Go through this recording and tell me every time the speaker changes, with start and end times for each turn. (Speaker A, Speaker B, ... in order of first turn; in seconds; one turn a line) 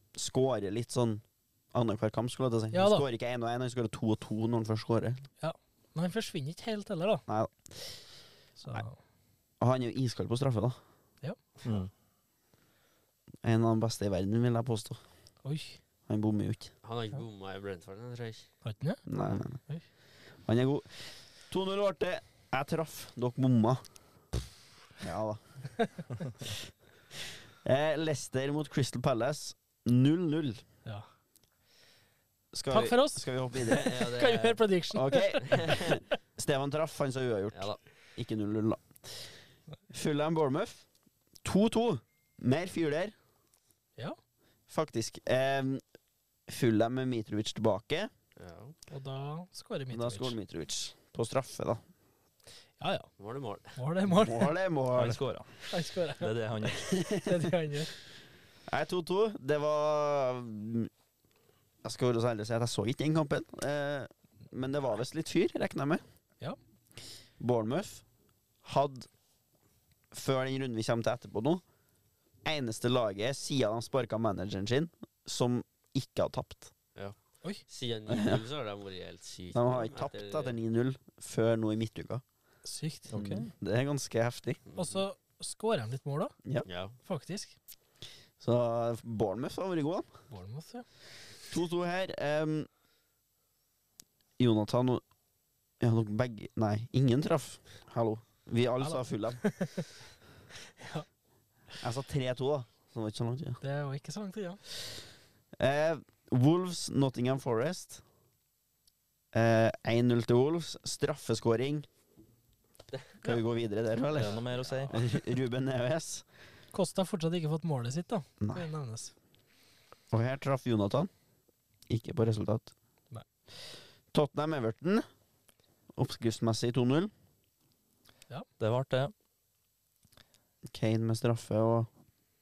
Speaker A: 0.1-5.2
Speaker B: 2.7-3.0
Speaker B: 5.4-7.2
Speaker A: 7.3-8.0
Speaker B: 8.6-9.0
Speaker A: 9.6-10.8
Speaker C: 11.6-11.9
Speaker A: 13.4-15.0
Speaker B: 15.4-15.8
Speaker A: 16.1-16.7
Speaker D: 16.8-18.5
Speaker B: 18.6-19.0
Speaker A: 19.1-19.6
Speaker A: 20.4-23.8
Speaker A: 25.0-25.4
Speaker A: 27.1-30.6
Speaker A: 32.5-33.9
Speaker B: 32.7-35.7
Speaker D: 33.8-34.6
Speaker A: 34.9-39.3
Speaker D: 35.5-36.0
Speaker D: 37.5-37.8
Speaker A: 39.9-40.8
Speaker A: 41.4-43.1
Speaker A: 44.7-45.8
Speaker A: 46.5-48.1
Speaker D: 48.4-48.7
Speaker B: 48.9-50.3
Speaker A: 49.9-51.8
Speaker B: 52.8-53.1
Speaker D: 53.2-53.8
Speaker B: 53.8-54.5
Speaker A: 54.0-55.2
Speaker C: 54.9-55.7
Speaker B: 55.7-56.3
Speaker C: 56.2-56.9
Speaker A: 56.8-57.5
Speaker B: 57.0-57.9
Speaker A: 58.7-60.9
Speaker A: 61.8-66.0
Speaker A: 67.4-68.0
Speaker A: 68.6-69.1
Speaker A: 70.1-71.6
Speaker A: 72.4-76.7
Speaker D: 77.7-80.6
Speaker A: 78.1-78.4
Speaker A: 79.5-82.2
Speaker B: 82.6-83.1
Speaker C: 83.1-83.5
Speaker A: 83.1-84.6
Speaker D: 84.7-85.0
Speaker B: 84.7-86.3
Speaker D: 86.7-86.9
Speaker B: 87.0-87.5
Speaker A: 88.4-90.1
Speaker B: 90.3-90.8
Speaker A: 91.5-92.7
Speaker A: 94.4-95.0
Speaker A: 95.8-99.4
Speaker B: 98.8-99.9
Speaker B: 100.8-101.0
Speaker A: 101.8-103.6
Speaker B: 103.6-104.6
Speaker A: 105.6-108.0
Speaker A: 109.3-111.9
Speaker A: 113.2-116.2
Speaker C: 114.1-115.0
Speaker D: 114.1-115.0
Speaker B: 116.7-119.1
Speaker A: 118.4-118.7
Speaker A: 120.1-121.1
Speaker A: 121.9-122.7
Speaker A: 124.1-125.0
Speaker A: 125.9-127.1
Speaker C: 128.6-129.1
Speaker A: 130.7-131.9